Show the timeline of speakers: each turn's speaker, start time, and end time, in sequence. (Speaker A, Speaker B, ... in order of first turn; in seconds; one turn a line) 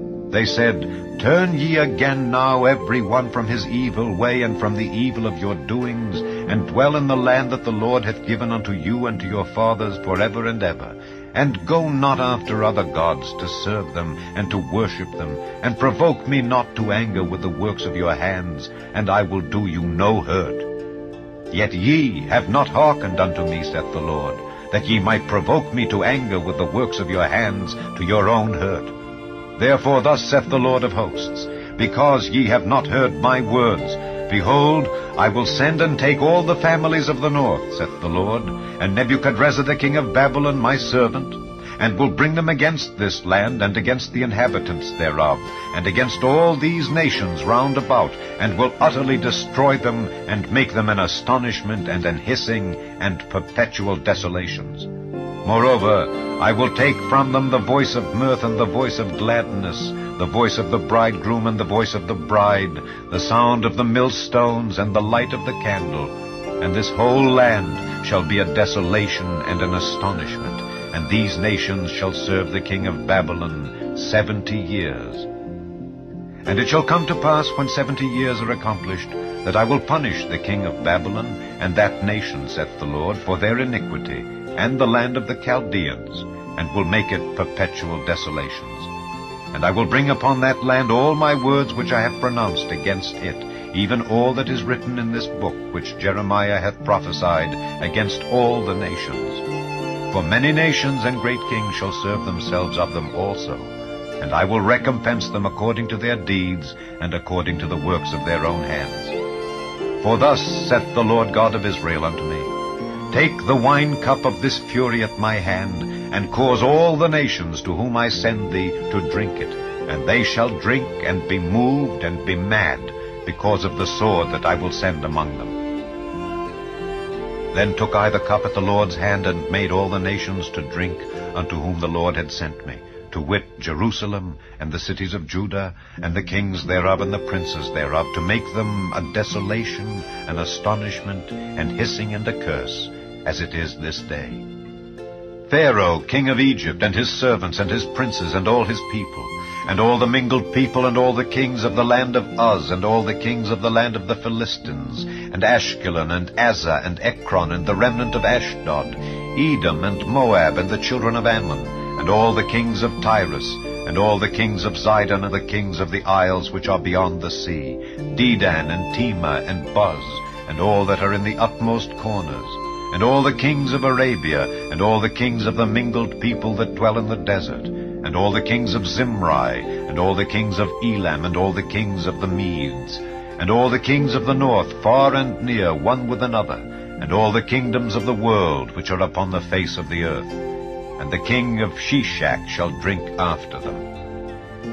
Speaker A: 0.3-20.7
Speaker A: 21.5-28.9
Speaker A: 29.6-54.9
Speaker A: 55.4-75.3
Speaker A: 76.5-88.9
Speaker A: 89.5-99.4
Speaker A: 100.1-109.2
Speaker A: 110.0-112.5
Speaker A: 113.1-125.6
Speaker A: 127.5-144.4
Speaker A: 145.5-190.4
Speaker A: 191.0-193.8